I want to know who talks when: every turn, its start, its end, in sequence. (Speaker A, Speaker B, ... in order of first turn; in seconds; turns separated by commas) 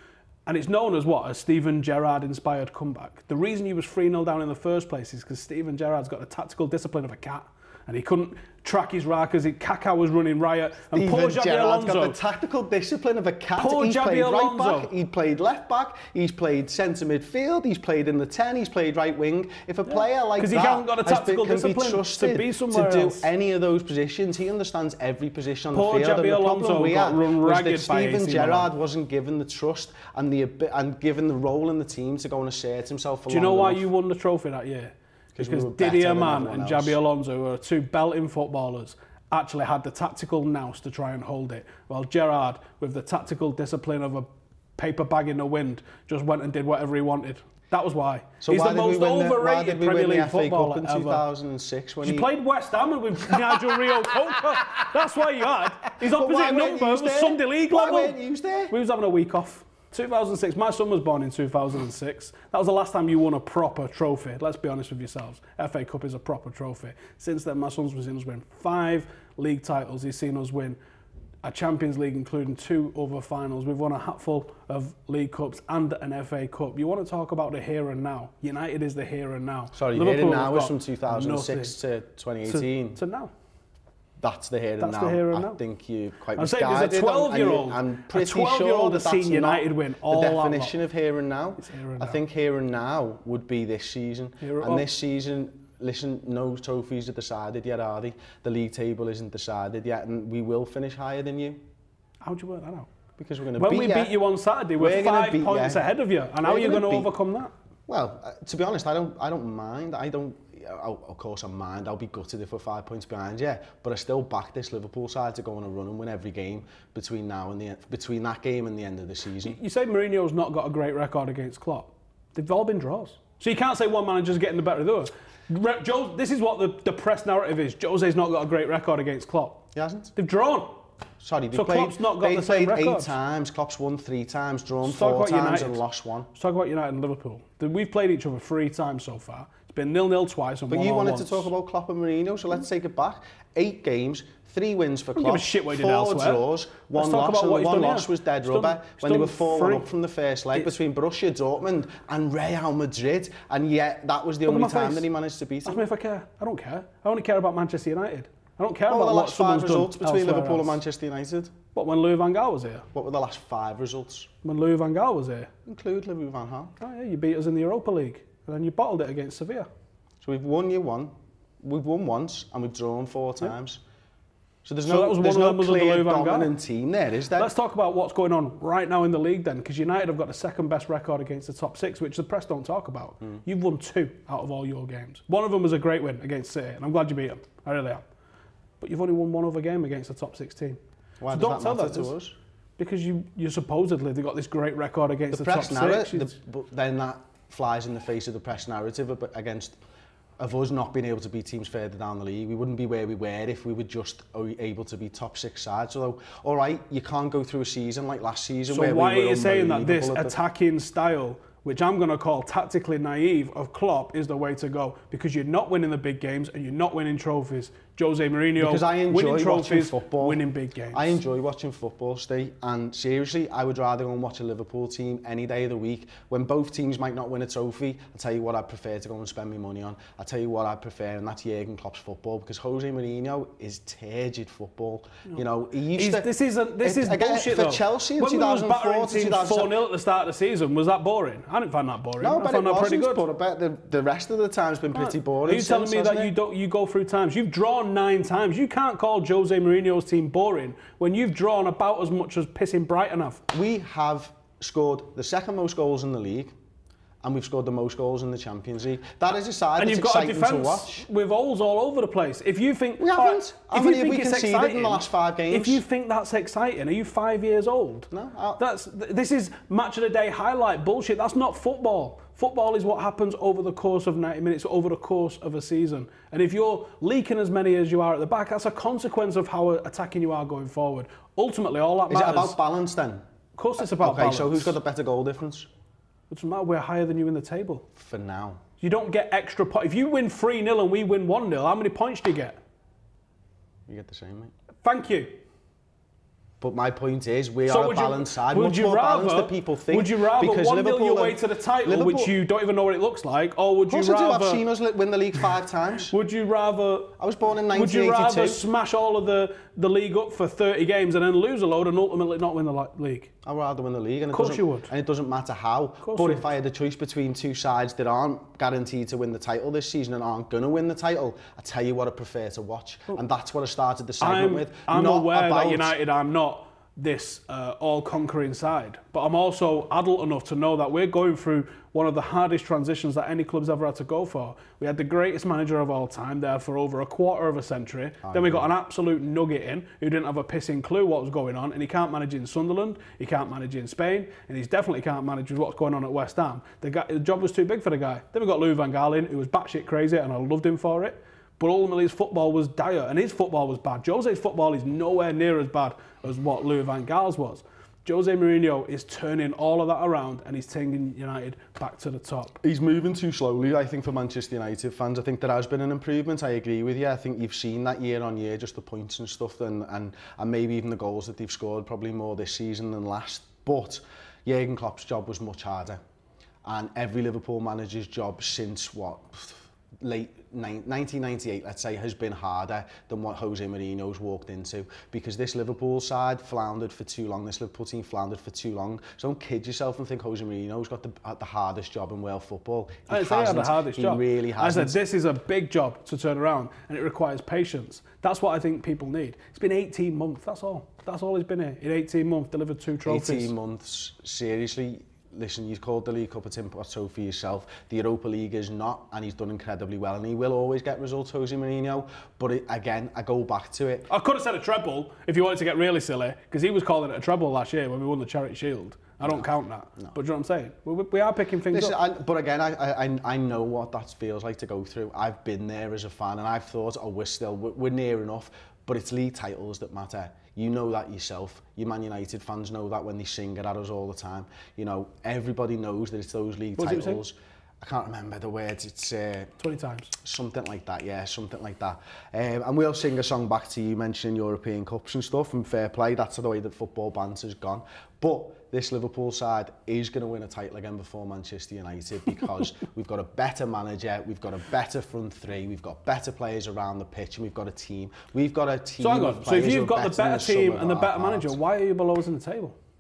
Speaker A: 0.5-12.2, Speaker B: 10.9-33.9, Speaker A: 13.6-14.9, Speaker A: 20.4-23.3, Speaker A: 25.7-28.7, Speaker A: 33.3-51.3, Speaker B: 35.4-37.0, Speaker B: 48.4-52.3, Speaker A: 52.0-58.2, Speaker B: 53.3-54.9, Speaker B: 55.9-58.7, Speaker A: 58.7-70.8, Speaker A: 71.4-81.8, Speaker B: 79.8-83.0, Speaker A: 82.5-83.3, Speaker B: 84.2-101.6, Speaker A: 84.8-85.6, Speaker A: 86.4-90.8, Speaker A: 91.6-92.2, Speaker A: 94.4-94.9, Speaker A: 102.2-102.9, Speaker B: 103.2-104.2, Speaker A: 103.6-107.5, Speaker B: 104.8-105.8, Speaker B: 106.4-107.1, Speaker B: 107.9-119.6, Speaker A: 119.4-129.6, Speaker B: 129.8-130.1, Speaker A: 130.2-130.8, Speaker B: 131.2-136.3, Speaker A: 131.5-133.1, Speaker A: 134.8-135.8, Speaker A: 136.3-141.5, Speaker B: 140.7-155.8, Speaker A: 145.2-149.9, Speaker A: 154.4-155.1, Speaker A: 155.7-160.8, Speaker B: 158.9-161.5, Speaker A: 161.7-162.9, Speaker B: 162.9-164.3, Speaker A: 164.4-165.5, Speaker B: 165.7-166.7, Speaker A: 166.8-169.7, Speaker B: 170.2-173.8, Speaker B: 174.7-177.5, Speaker A: 174.8-176.5, Speaker A: 177.3-188.0, Speaker A: 188.8-190.8, Speaker B: 191.2-192.3, Speaker A: 191.3-192.1, Speaker A: 192.8-196.3, Speaker B: 195.3-199.8, Speaker B: 200.4-210.4, Speaker A: 208.7-221.2, Speaker B: 218.6-220.4, Speaker B: 220.9-239.8, Speaker A: 235.9-243.2, Speaker B: 242.2-246.3, Speaker A: 244.9-253.4, Speaker B: 253.5-256.5, Speaker B: 257.2-261.1, Speaker A: 259.8-282.6, Speaker B: 263.0-265.8, Speaker B: 268.1-268.6, Speaker B: 282.1-283.2, Speaker A: 283.6-284.8, Speaker B: 283.8-285.7, Speaker A: 286.3-287.9, Speaker B: 288.0-288.6, Speaker A: 288.8-292.6, Speaker B: 293.9-294.5, Speaker A: 294.8-295.4, Speaker B: 296.6-302.3, Speaker A: 297.7-304.6, Speaker B: 303.9-306.1, Speaker A: 306.1-307.2, Speaker B: 307.2-308.6, Speaker A: 307.7-313.3, Speaker B: 313.4-325.9, Speaker A: 314.3-314.9, Speaker A: 316.0-316.5, Speaker A: 324.2-362.6, Speaker B: 338.2-338.7, Speaker B: 362.6-376.0, Speaker B: 376.6-395.0, Speaker A: 393.1-403.5, Speaker B: 403.1-414.1, Speaker A: 414.1-422.0, Speaker B: 421.7-439.6, Speaker A: 436.8-437.2, Speaker A: 439.6-440.1, Speaker B: 440.1-461.6, Speaker A: 459.0-462.8